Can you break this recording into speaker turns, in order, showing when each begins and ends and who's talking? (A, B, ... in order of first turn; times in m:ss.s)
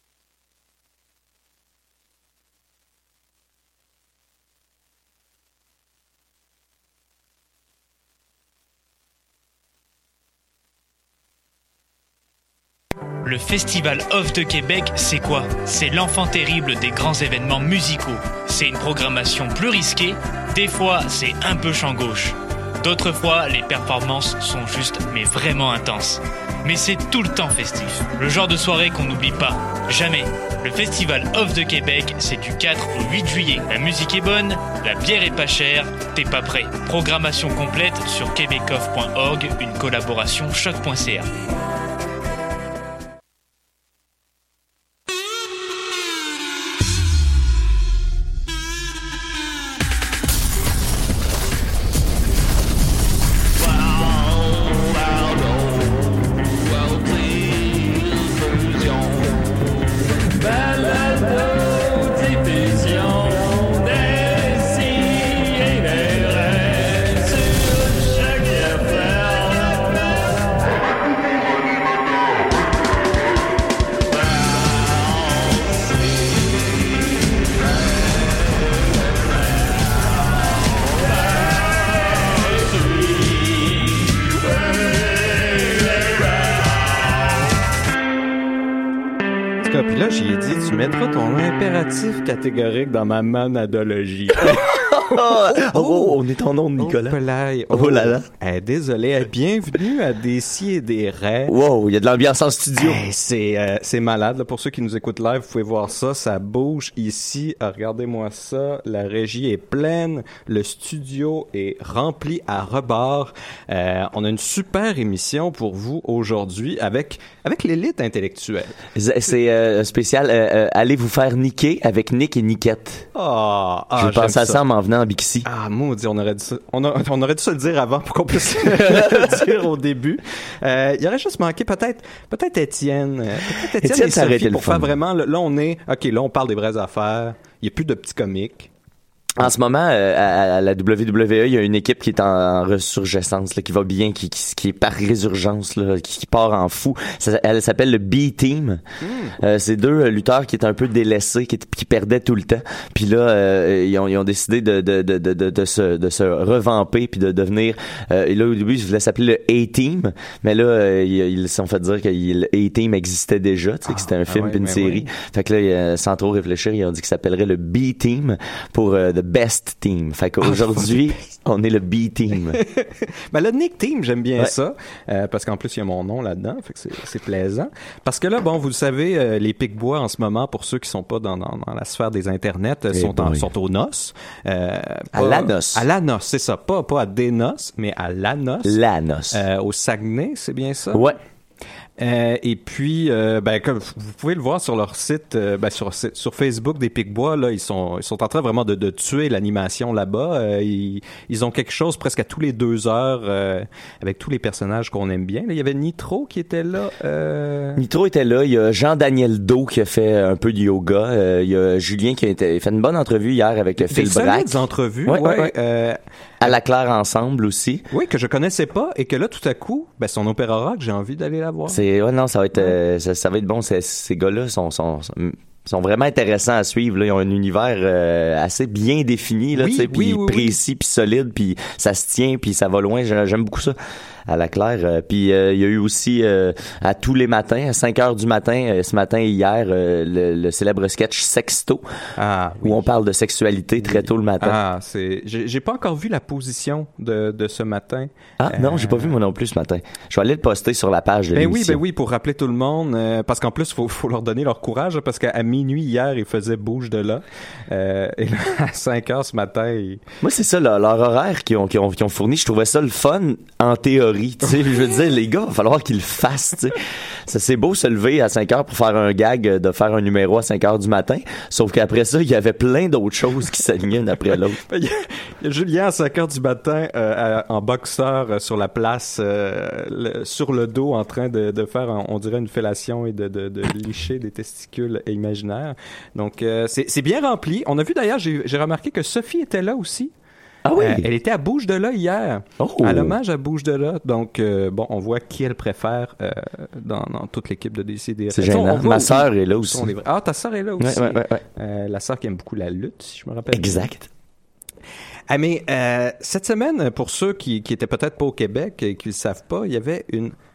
0:13.2-0:41.3 A
0:57.1-0:57.9 A
1:00.6-1:07.0 A
1:08.2-1:09.4 A
1:29.6-1:36.2 B
1:34.4-1:37.2 C
1:36.8-1:41.5 B
1:37.7-1:38.3 C
1:41.5-1:43.0 C
1:42.8-1:58.8 B
1:58.9-2:03.1 C
2:03.1-2:04.6 B
2:04.0-2:05.5 C
2:05.4-2:18.7 B
2:08.6-2:09.6 C
2:13.5-2:14.9 C
2:19.4-2:28.8 C
2:29.0-2:29.4 B
2:29.4-2:52.6 C
2:43.9-2:45.1 B
2:50.4-2:50.9 B
2:52.5-3:08.8 B
3:02.9-3:03.5 C
3:05.1-3:05.8 C
3:08.6-3:09.4 C
3:09.3-3:11.1 B
3:12.0-3:27.8 B
3:27.8-3:35.5 C
3:33.8-3:36.0 B
3:36.4-3:37.9 C
3:37.9-3:41.8 B
3:41.7-3:53.8 C
3:49.6-3:50.6 B
3:54.3-4:01.8 C
4:02.2-4:02.8 B
4:02.6-4:04.6 C
4:03.8-4:09.2 B
4:08.4-4:11.8 C
4:11.3-4:20.0 B
4:20.2-4:34.6 C
4:34.6-4:50.1 B
4:50.6-4:51.0 C
4:50.8-5:03.9 B
4:52.6-4:53.1 C
4:58.3-4:59.9 C
5:00.8-5:01.4 C
5:03.5-5:04.1 C
5:05.3-5:10.3 B